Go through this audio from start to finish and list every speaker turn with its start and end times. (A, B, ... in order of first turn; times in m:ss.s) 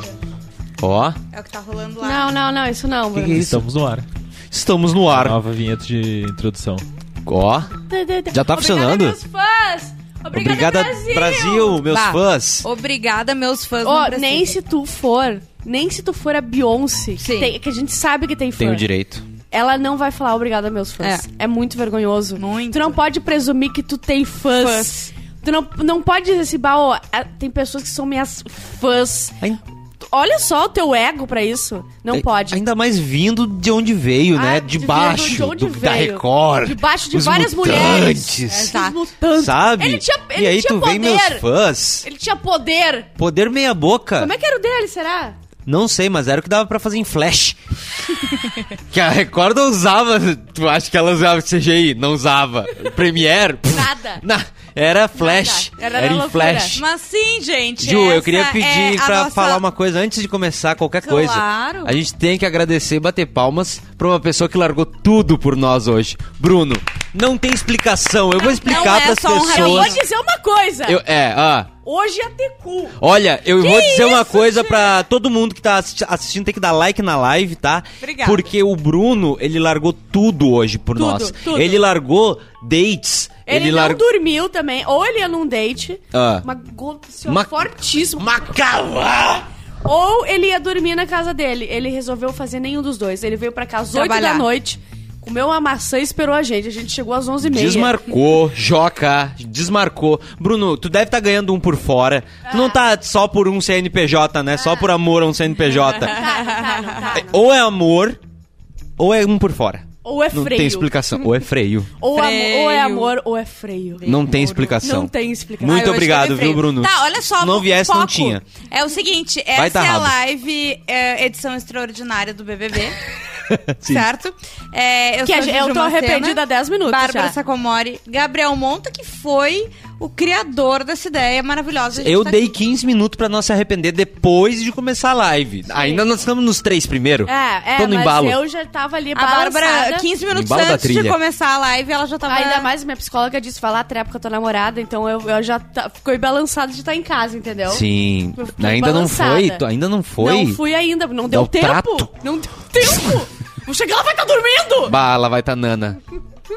0:00.8-0:01.2 A
0:01.3-0:02.3 B
0:02.0-0:03.4 C
0:03.1-0:03.7 A
0:03.3-0:04.0 D
0:04.5-0:05.4 A
0:05.1-0:06.8 D
0:07.2-0:07.7 A
0:07.9-0:11.8 C
0:08.3-0:09.2 A
0:10.3-0:12.6 A
0:11.9-0:14.5 B
0:13.8-0:18.8 C
0:17.2-0:17.5 B
0:18.6-0:19.2 A
0:19.5-0:29.4 C
0:21.0-0:21.2 B
0:22.4-0:23.0 B
0:24.6-0:25.1 B
0:30.0-0:32.6 C
0:32.1-0:38.8 A
0:34.3-0:41.4 C
0:38.6-0:39.0 B
0:39.3-0:42.0 A
0:42.0-0:43.1 C
0:43.2-0:44.3 A
0:44.2-0:45.4 C
0:45.6-0:47.6 A
0:48.9-0:56.8 A
0:53.7-0:54.2 C
0:55.2-0:56.8 C
0:56.7-0:59.6 B
0:57.8-1:10.0 A
1:01.0-1:01.9 B
1:08.4-1:11.0 C
1:08.6-1:10.0 B
1:10.8-1:11.7 A
1:11.8-1:13.0 C
1:13.0-1:24.0 A
1:13.6-1:14.9 C
1:18.0-1:18.5 B
1:21.0-1:21.8 C
1:23.5-1:28.4 C
1:26.1-1:26.4 A
1:27.3-1:29.5 A
1:29.8-1:38.0 C
1:33.9-1:34.4 B
1:37.4-1:46.2 A
1:42.4-1:42.8 C
1:44.6-1:44.9 C
1:45.7-1:47.4 C
1:46.1-1:47.2 B
1:47.1-1:48.2 A
1:49.0-1:51.9 A
1:50.0-1:50.9 C
1:52.0-1:54.0 C
1:52.1-1:53.1 B
1:54.0-1:54.8 B
1:54.0-1:58.4 A
1:54.8-1:56.2 C
1:55.7-2:03.0 B
1:59.6-2:00.1 A
2:03.5-2:04.0 A
2:03.8-2:12.4 B
2:05.2-2:07.4 C
2:12.0-2:18.4 A
2:15.7-2:16.0 C
2:17.2-2:20.0 C
2:19.1-2:22.7 B
2:20.3-2:21.2 A
2:22.3-2:29.6 C
2:27.7-2:30.6 A
2:30.2-2:35.0 C
2:31.3-2:32.1 A
2:34.8-2:36.0 A